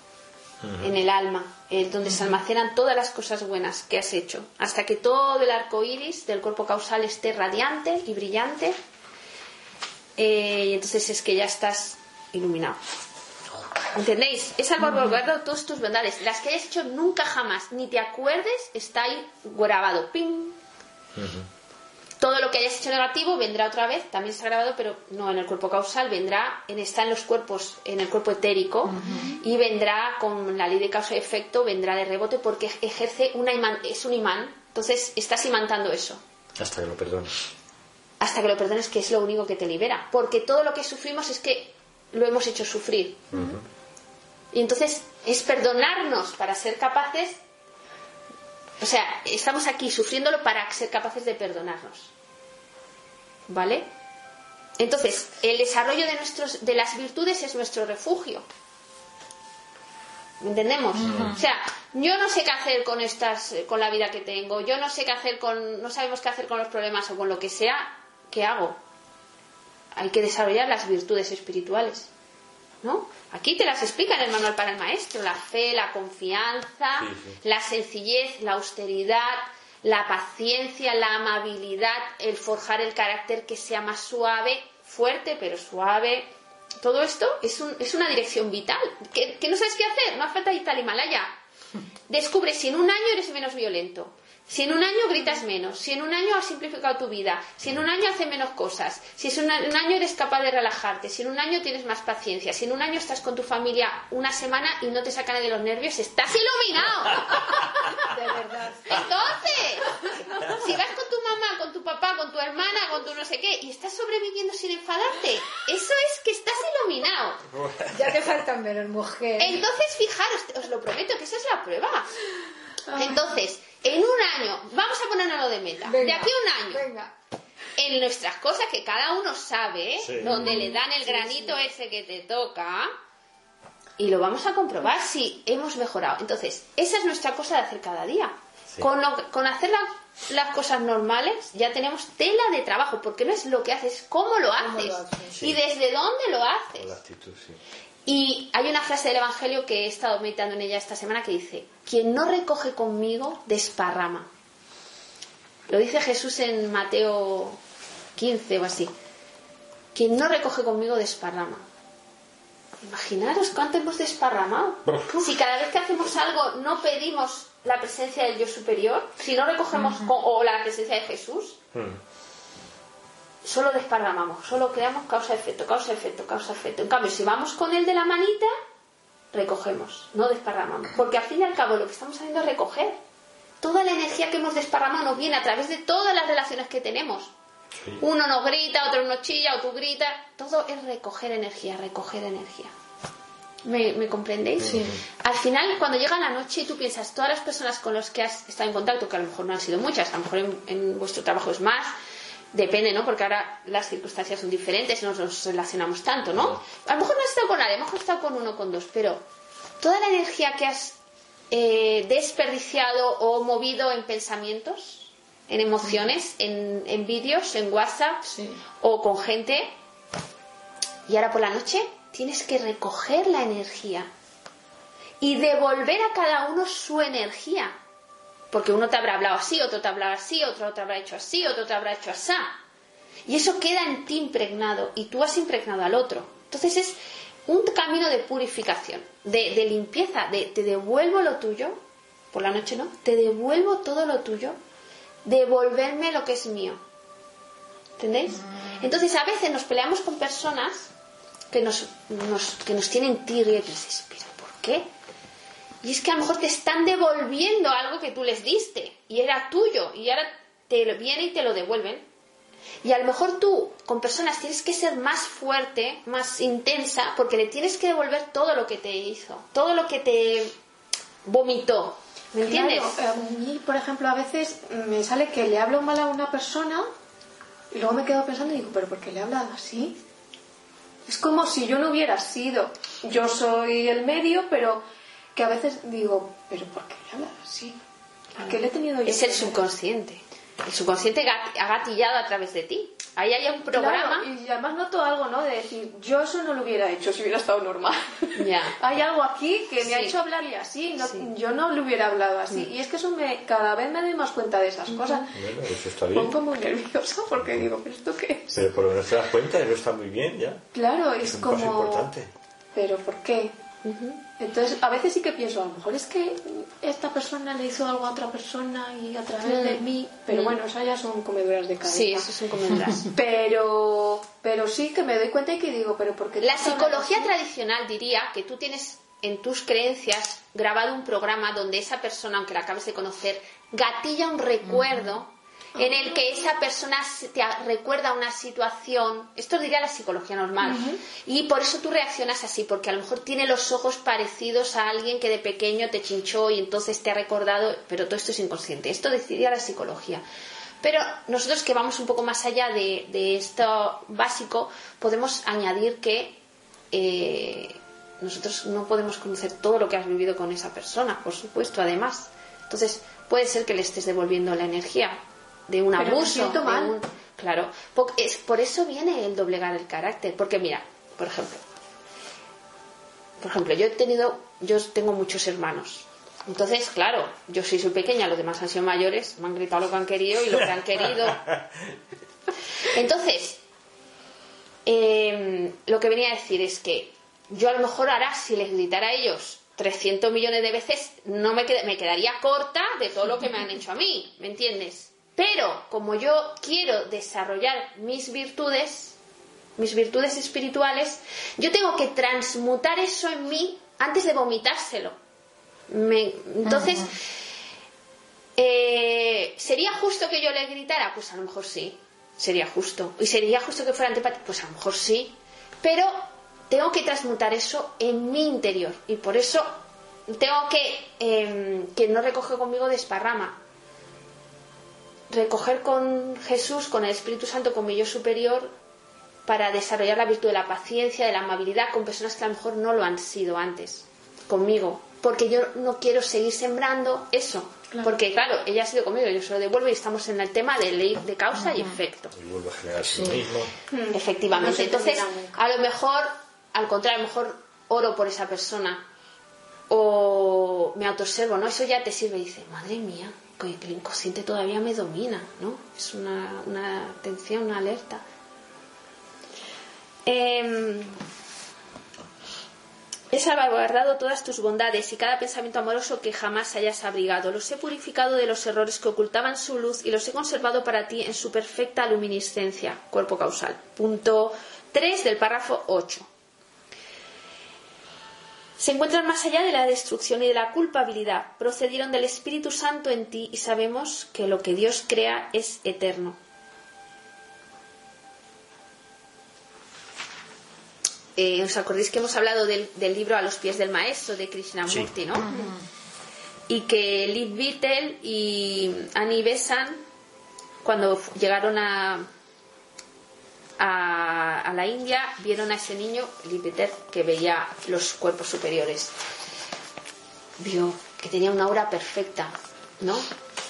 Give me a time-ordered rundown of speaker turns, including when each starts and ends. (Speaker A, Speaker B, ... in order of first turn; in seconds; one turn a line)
Speaker A: 0.6-0.9
Speaker B: 0.8-8.8
Speaker B: 10.2-12.8
Speaker B: 13.9-20.6
Speaker A: 21.2-21.5
Speaker B: 22.2-36.2
Speaker C: 28.9-29.4
Speaker A: 36.6-37.5
Speaker B: 38.2-43.3
Speaker A: 43.3-43.7
Speaker B: 44.5-47.4
Speaker B: 48.8-52.1
Speaker B: 53.5-53.9
Speaker B: 54.8-58.5
Speaker B: 60.4-68.8
Speaker C: 61.0-61.4
Speaker A: 61.0-61.4
Speaker B: 70.0-72.1
Speaker B: 72.8-91.4
Speaker A: 77.0-77.4
Speaker B: 92.1-107.6
Speaker C: 108.0-109.1
Speaker B: 108.9-117.4
Speaker A: 117.5-118.2
Speaker C: 117.9-119.7
Speaker B: 119.4-122.1
Speaker D: 122.9-123.3
Speaker B: 122.9-126.9
Speaker C: 125.9-127.1
Speaker B: 127.8-132.9
Speaker A: 130.0-130.7
Speaker C: 130.4-130.7
Speaker B: 134.0-146.9
Speaker C: 144.6-145.4
Speaker A: 145.3-145.6
Speaker A: 146.8-147.6
Speaker B: 148.1-154.3
Speaker B: 155.7-157.6
Speaker B: 158.2-158.9
Speaker B: 159.9-161.7
Speaker B: 162.8-171.6
Speaker A: 164.9-165.2
Speaker A: 171.7-172.0
Speaker B: 173.4-178.5
Speaker B: 179.3-183.0
Speaker B: 183.6-187.3
Speaker A: 187.8-188.0
Speaker B: 188.0-192.7
Speaker B: 193.6-201.9
Speaker A: 194.6-195.0
Speaker B: 202.5-209.2
Speaker A: 206.4-206.6
Speaker B: 209.8-211.0
Speaker B: 211.5-218.3
Speaker C: 218.3-218.6
Speaker B: 218.8-219.7
Speaker B: 221.1-224.1
Speaker B: 225.2-227.8
Speaker B: 228.5-232.6
Speaker B: 233.3-241.8
Speaker B: 242.3-244.6
Speaker B: 245.2-246.8
Speaker B: 248.0-250.9
Speaker B: 251.5-254.9
Speaker B: 255.8-262.1
Speaker B: 262.8-270.5
Speaker B: 271.2-273.0
Speaker D: 272.4-276.9
Speaker D: 277.7-280.0
Speaker D: 281.1-284.8
Speaker D: 285.4-287.8
Speaker D: 288.4-289.7
Speaker B: 288.4-294.3
Speaker D: 293.7-305.4
Speaker B: 298.4-298.8
Speaker B: 299.8-300.2
Speaker B: 301.0-301.3
Speaker A: 305.3-306.4
Speaker D: 306.1-308.6
Speaker A: 307.4-307.7
Speaker A: 308.5-310.6
Speaker D: 310.7-312.1
Speaker A: 311.2-312.3
Speaker D: 312.8-313.6
Speaker B: 313.8-314.2
Speaker D: 314.4-322.3
Speaker B: 319.4-320.6
Speaker B: 321.9-323.1
Speaker D: 323.1-327.3
Speaker B: 326.4-350.2
Speaker D: 340.6-341.0
Speaker B: 350.8-356.4
Speaker B: 356.9-371.6
Speaker D: 366.0-367.0
Speaker B: 373.4-381.4
Speaker A: 381.2-381.9
Speaker B: 382.8-383.6
Speaker B: 384.9-399.2
Speaker B: 399.8-405.2
Speaker B: 405.9-407.1
Speaker C: 406.7-407.1
Speaker B: 408.6-423.6
Speaker B: 425.3-428.7
Speaker B: 429.5-442.3
Speaker C: 441.6-441.9
Speaker A: 442.3-443.7
Speaker C: 443.1-443.4
Speaker D: 443.9-445.6
Speaker B: 444.1-449.1
Speaker B: 449.9-458.2
Speaker B: 460.2-461.2
Speaker B: 463.3-476.3
Speaker B: 478.8-486.4
Speaker B: 491.4-495.5
Speaker A: 494.9-495.1
Speaker C: 495.4-495.8
Speaker B: 496.7-500.0
Speaker B: 500.8-502.3
Speaker B: 503.8-509.2
Speaker B: 510.6-513.3